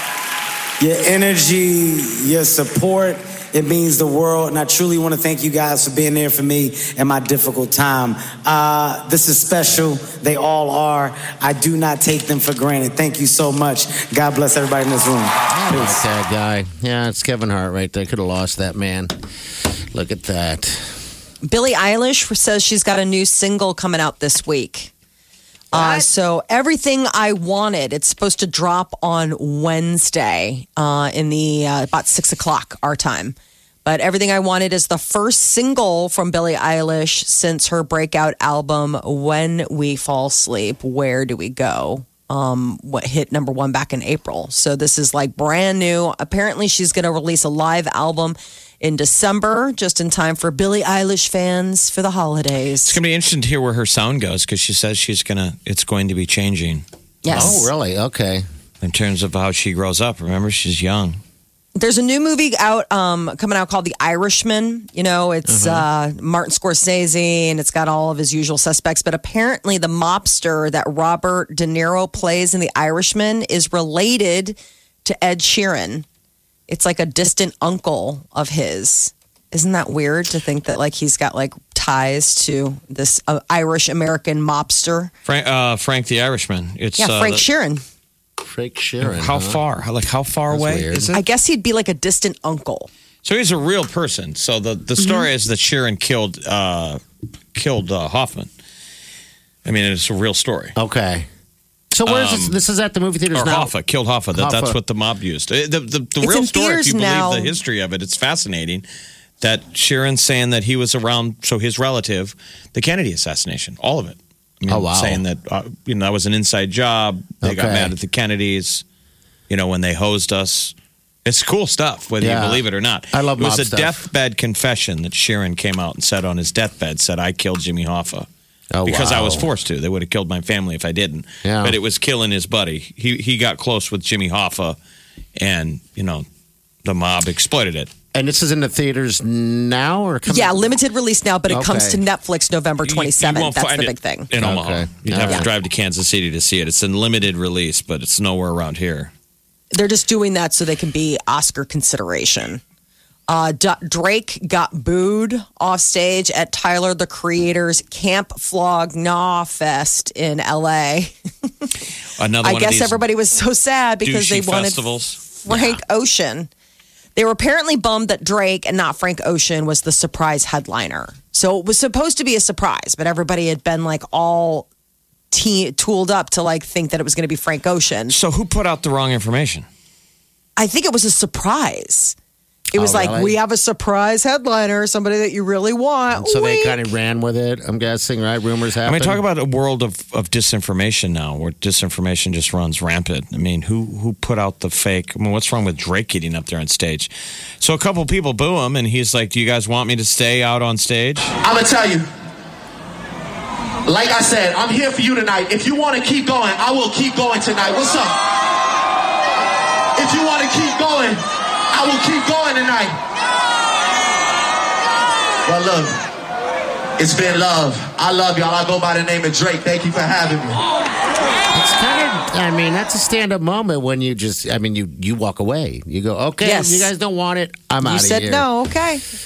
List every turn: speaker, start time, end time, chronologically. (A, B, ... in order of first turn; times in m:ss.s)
0:00.8-0:16.0 A
0:15.5-0:19.1 B
0:19.9-0:20.9 B
0:21.4-0:24.9 C
0:25.7-0:53.0 C
0:25.7-0:26.1 B
0:52.8-0:57.6 D
0:57.2-0:57.7 C
0:57.3-0:58.4 B
0:58.8-1:01.2 D
1:01.8-1:16.0 C
1:05.4-1:05.9 B
1:16.7-1:25.1 C
1:25.2-1:27.4 D
1:27.0-1:27.8 C
1:28.4-1:29.6 B
1:29.0-1:31.2 D
1:30.5-1:31.2 B
1:31.1-1:32.9 C
1:33.2-1:37.0 D
1:35.0-1:35.3 C
1:37.5-1:38.5 D
1:39.6-1:40.7 D
1:40.8-1:41.3 B
1:41.9-1:43.7 B
1:42.0-1:42.5 D
1:43.3-1:48.8 D
1:44.3-1:44.8 B
1:46.2-1:47.6 C
1:49.4-1:58.8 D
1:54.7-1:55.2 B
1:57.4-1:57.9 B
1:59.5-2:00.7 D
2:01.2-2:08.3 D
2:02.2-2:04.0 B
2:08.7-2:09.5 B
2:08.8-2:14.8 D
2:11.4-2:11.8 B
2:15.4-2:16.2 D
2:16.8-2:17.9 D
2:18.1-2:20.7 B
2:20.3-2:24.3 C
2:21.5-2:22.0 B
2:22.8-2:29.1 D
2:24.4-2:25.5 B
2:29.7-2:32.6 C
2:33.3-2:41.1 C
2:42.2-2:43.0 D
2:42.4-2:46.5 C
2:44.0-2:45.2 D
2:45.5-2:45.8 B
2:47.2-2:54.7 C
2:55.3-2:58.1 C
2:58.1-2:59.6 D
3:00.6-3:02.2 C
3:02.7-3:06.9 C
3:02.7-3:03.4 B
3:06.1-3:09.2 B
3:08.8-3:21.4 D
3:21.4-3:22.0 E
3:23.8-3:28.2 E
3:30.0-3:31.2 E
3:31.7-3:32.9 E
3:35.5-3:35.9 E
3:37.0-3:40.6 E
3:41.5-3:48.5 B
3:46.4-3:46.9 C
3:47.8-3:49.0 C